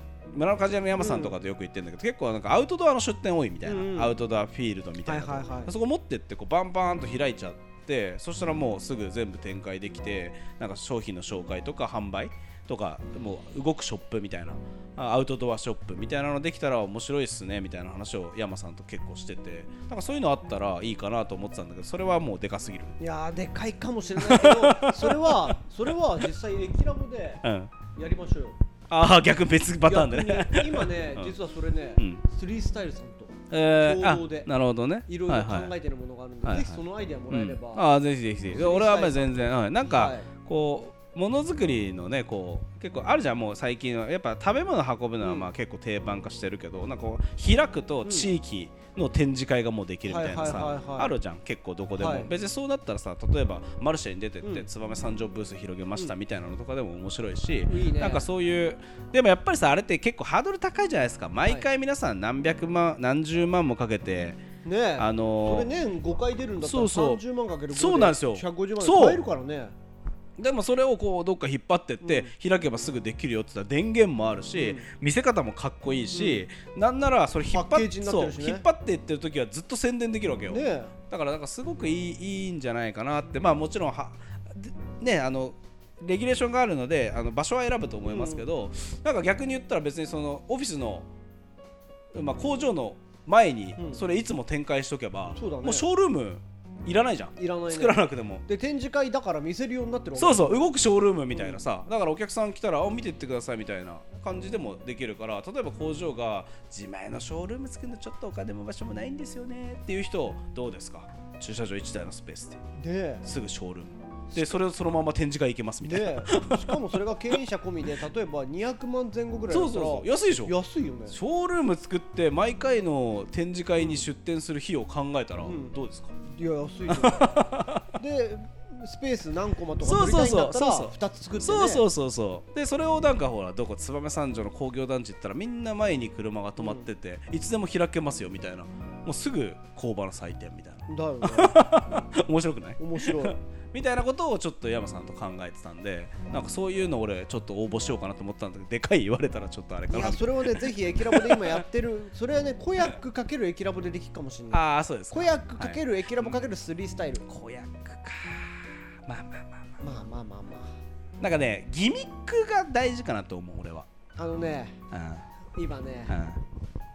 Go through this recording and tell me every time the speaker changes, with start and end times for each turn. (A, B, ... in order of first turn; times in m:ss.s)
0:00.3-0:22.9 A
0:01.0-0:01.3 B
0:03.6-0:04.1 B
0:05.0-0:05.7 B
0:23.0-0:27.4 B
0:24.2-0:25.9 A
0:27.4-0:27.7 A
0:27.9-0:28.6 B
0:28.9-0:31.3 A
0:29.8-0:34.5 B
0:33.5-0:35.7 A
0:35.1-0:37.8 B
0:36.4-1:04.4 A
0:38.5-0:40.3 B
0:45.2-0:45.5 B
0:48.0-0:48.3 B
0:50.1-0:51.1 B
0:52.0-0:52.3 B
0:57.7-0:58.2 B
1:04.6-1:09.7 B
1:05.0-1:05.7 A
1:06.6-1:09.2 A
1:10.4-1:31.1 A
1:12.0-1:12.3 B
1:14.6-1:14.9 B
1:16.1-1:16.4 B
1:17.5-1:18.7 B
1:20.5-1:20.9 B
1:28.1-1:28.4 B
1:32.1-1:38.4 A
1:33.8-1:34.0 B
1:35.3-1:35.9 B
1:37.4-1:40.7 B
1:40.2-1:52.6 A
1:41.3-1:41.6 B
1:52.8-1:53.2 B
1:53.2-1:57.4 A
1:54.3-1:54.6 B
1:55.8-2:01.2 B
1:59.5-2:00.5 A
2:01.1-2:06.2 A
2:03.8-2:04.1 B
2:05.4-2:11.8 B
2:06.9-2:07.9 A
2:09.8-2:31.6 A
2:16.6-2:16.9 B
2:20.9-2:21.6 B
2:22.8-2:23.4 B
2:29.9-2:37.2 B
2:34.5-2:36.4 A
2:37.2-2:39.8 A
2:39.8-2:40.7 B
2:41.2-2:43.8 A
2:44.2-2:44.7 B
2:44.9-2:45.2 A
2:45.6-2:46.2 B
2:46.1-2:46.4 A